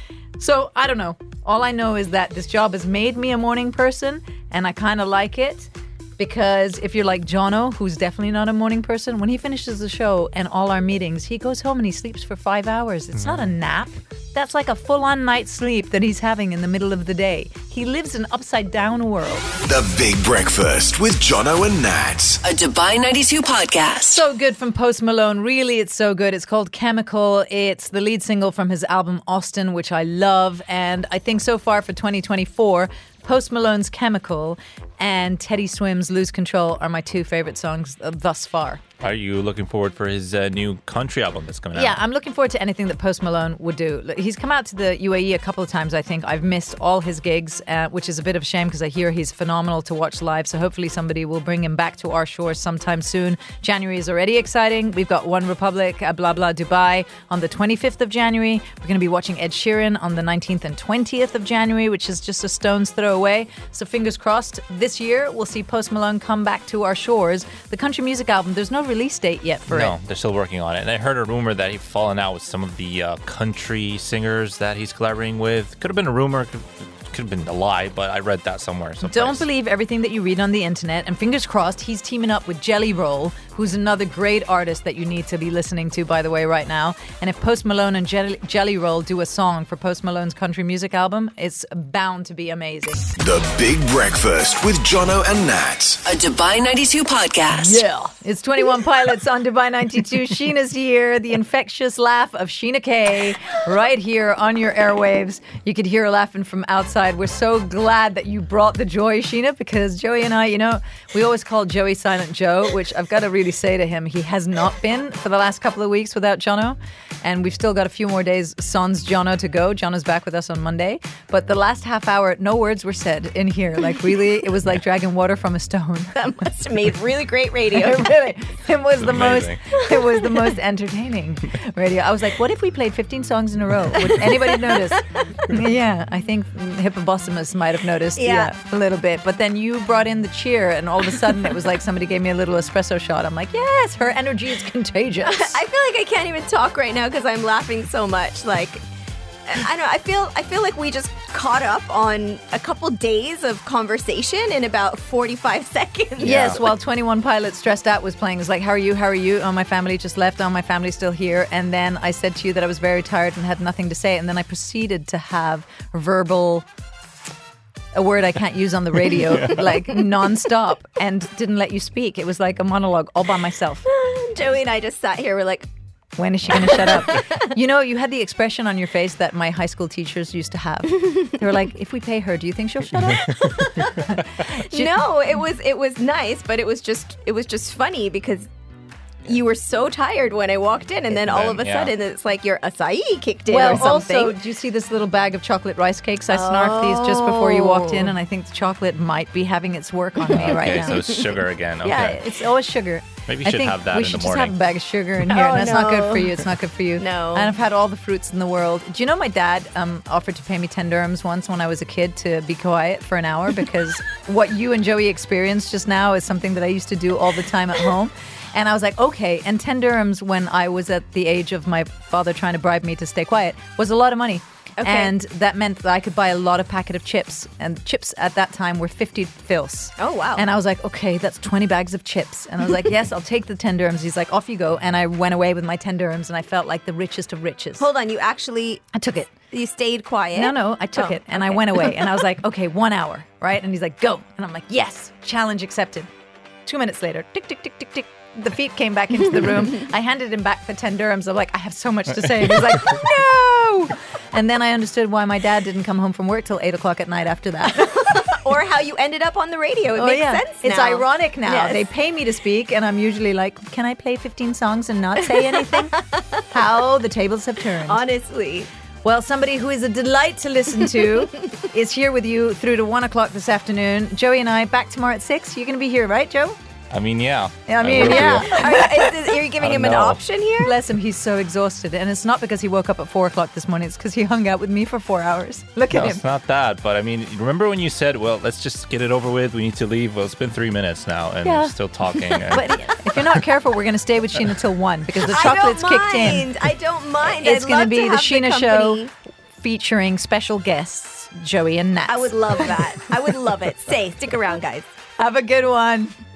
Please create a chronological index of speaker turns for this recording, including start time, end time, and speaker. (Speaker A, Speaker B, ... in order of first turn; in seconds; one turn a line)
Speaker A: 0.4-19.6
Speaker B: 13.2-13.5
Speaker C: 19.6-22.4
Speaker D: 22.4-24.2
Speaker A: 24.1-38.8
Speaker B: 39.0-42.0
Speaker A: 41.7-69.9
Speaker B: 69.7-79.5
Speaker A: 79.0-93.1
Speaker C: 93.2-96.0
Speaker D: 96.0-97.8
Speaker A: 97.5-126.2
Speaker E: 126.2-128.1
Speaker A: 127.8-145.6
Speaker B: 129.0-129.6
Speaker E: 134.2-135.2
Speaker E: 138.2-138.5
Speaker E: 145.2-148.8
Speaker E: 149.5-156.6
Speaker A: 156.2-166.7
Speaker A: 167.9-173.8
Speaker E: 173.9-175.7
Speaker A: 176.2-183.5
Speaker E: 176.6-177.5
Speaker E: 183.3-188.5
Speaker A: 184.1-184.9
Speaker E: 189.2-194.4
Speaker B: 191.1-191.9
Speaker A: 193.5-201.1
Speaker E: 196.3-198.1
Speaker E: 200.2-201.4
Speaker B: 200.3-202.2
Speaker A: 201.8-237.9
Speaker B: 203.3-204.6
Speaker E: 205.2-207.5
Speaker E: 224.8-225.1
Speaker E: 230.0-230.5
Speaker E: 237.8-238.8
Speaker A: 238.9-239.4
Speaker E: 239.5-242.1
Speaker A: 240.3-246.1
Speaker A: 246.7-258.0
Speaker E: 257.8-261.9
Speaker A: 259.9-268.0
Speaker E: 266.0-266.2
Speaker E: 267.8-268.7
Speaker A: 269.0-276.6
Speaker B: 276.9-278.6
Speaker A: 277.7-279.4
Speaker E: 277.9-280.8
Speaker B: 279.6-280.2
Speaker A: 280.6-286.2
Speaker B: 285.9-292.7
Speaker A: 291.4-291.8
Speaker A: 292.5-296.5
Speaker E: 295.3-299.1
Speaker A: 297.2-299.1
Speaker A: 299.6-302.8
Speaker E: 302.1-304.9
Speaker A: 305.2-306.1